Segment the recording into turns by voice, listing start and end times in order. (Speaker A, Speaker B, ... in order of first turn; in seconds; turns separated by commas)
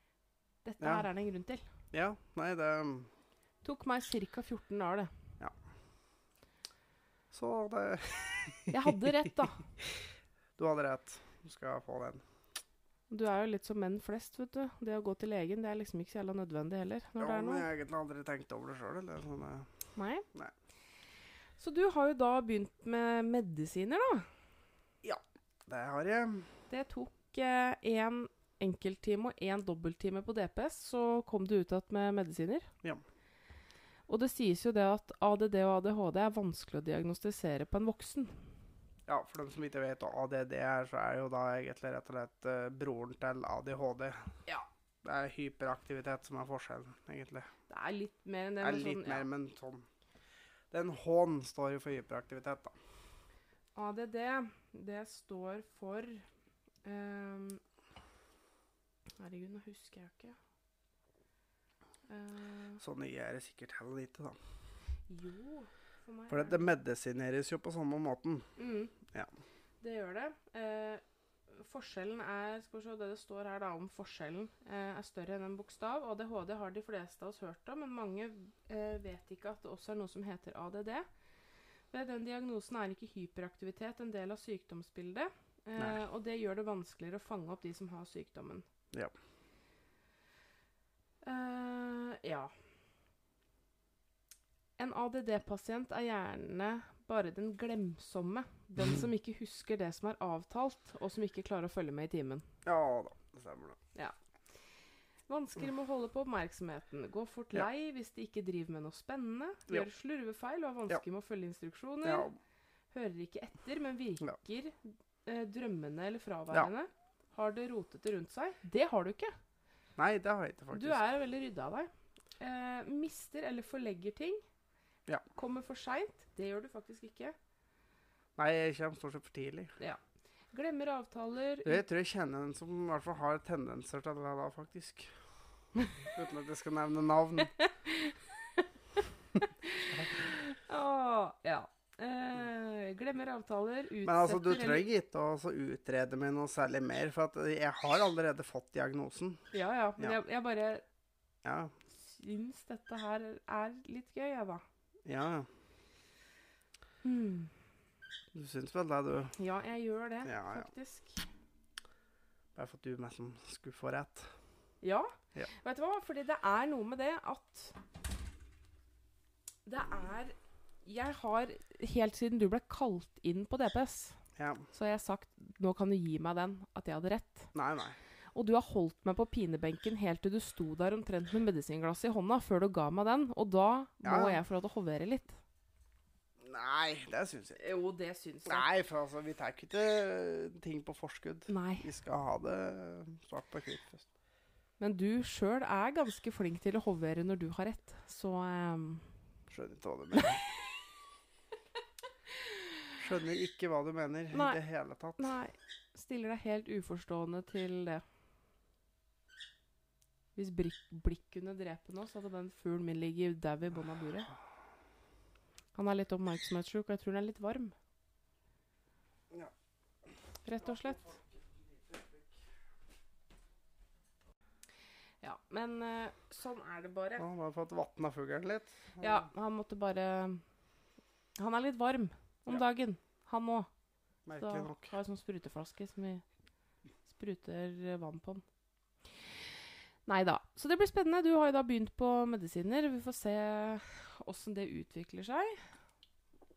Speaker A: 0.6-1.6, Speaker B: 0.8-1.1, Speaker B: 1.9-3.1, Speaker A: 3.6-5.1, Speaker B: 7.3-8.9, Speaker A: 8.7-9.7, Speaker B: 10.6-12.2, Speaker A: 13.1-17.7, Speaker B: 17.2-19.7, Speaker A: 19.9-20.2, Speaker A: 21.6-24.3, Speaker B: 25.0-26.5, Speaker A: 26.7-32.7, Speaker A: 34.1-38.4, Speaker B: 39.1-44.4, Speaker B: 45.0-47.5, Speaker A: 47.7-49.3, Speaker B: 48.6-49.9, Speaker B: 50.7-52.8, Speaker A: 53.7-56.2, Speaker A: 56.8-57.6, Speaker A: 59.2-60.4, Speaker A: 62.1-62.8, Speaker B: 62.8-64.4, Speaker A: 65.1-66.7, Speaker B: 66.3-68.5, Speaker A: 68.6-68.9, Speaker B: 69.0-69.3, Speaker A: 69.8-81.1, Speaker A: 81.9-88.7, Speaker A: 91.2-92.5, Speaker A: 94.8-102.5, Speaker B: 102.6-103.8, Speaker A: 105.3-112.3, Speaker B: 112.0-112.4, Speaker A: 112.9-119.3, Speaker B: 120.0-121.0, Speaker A: 120.7-124.4, Speaker A: 125.3-127.3, Speaker B: 128.3-129.7, Speaker A: 130.5-131.8, Speaker B: 131.6-135.2, Speaker B: 135.8-137.5, Speaker A: 137.4-144.8, Speaker B: 144.0-149.4, Speaker A: 149.5-150.8, Speaker B: 151.4-151.7, Speaker A: 151.9-154.6, Speaker B: 155.1-155.5, Speaker A: 157.0-157.5, Speaker B: 158.3-159.3, Speaker A: 159.4-161.2, Speaker B: 160.2-160.7, Speaker B: 162.5-164.3, Speaker A: 164.8-167.8, Speaker A: 169.7-174.2, Speaker B: 174.3-174.7, Speaker A: 174.7-177.5, Speaker B: 177.5-178.0, Speaker A: 178.3-185.4, Speaker B: 184.0-184.4, Speaker B: 186.4-187.6, Speaker A: 187.6-188.7, Speaker B: 188.4-194.1, Speaker A: 191.5-191.9, Speaker A: 194.8-199.1, Speaker B: 199.5-200.5, Speaker A: 200.2-200.4, Speaker B: 203.0-205.3, Speaker A: 204.3-204.6, Speaker A: 205.2-208.0, Speaker A: 210.3-214.3, Speaker A: 215.7-217.7, Speaker A: 220.4-221.1, Speaker B: 220.5-222.4, Speaker A: 225.2-227.2, Speaker B: 227.2-229.3, Speaker A: 229.0-230.4, Speaker A: 231.4-233.7, Speaker B: 234.2-234.9, Speaker A: 234.4-236.2, Speaker A: 237.1-238.4, Speaker A: 240.1-245.6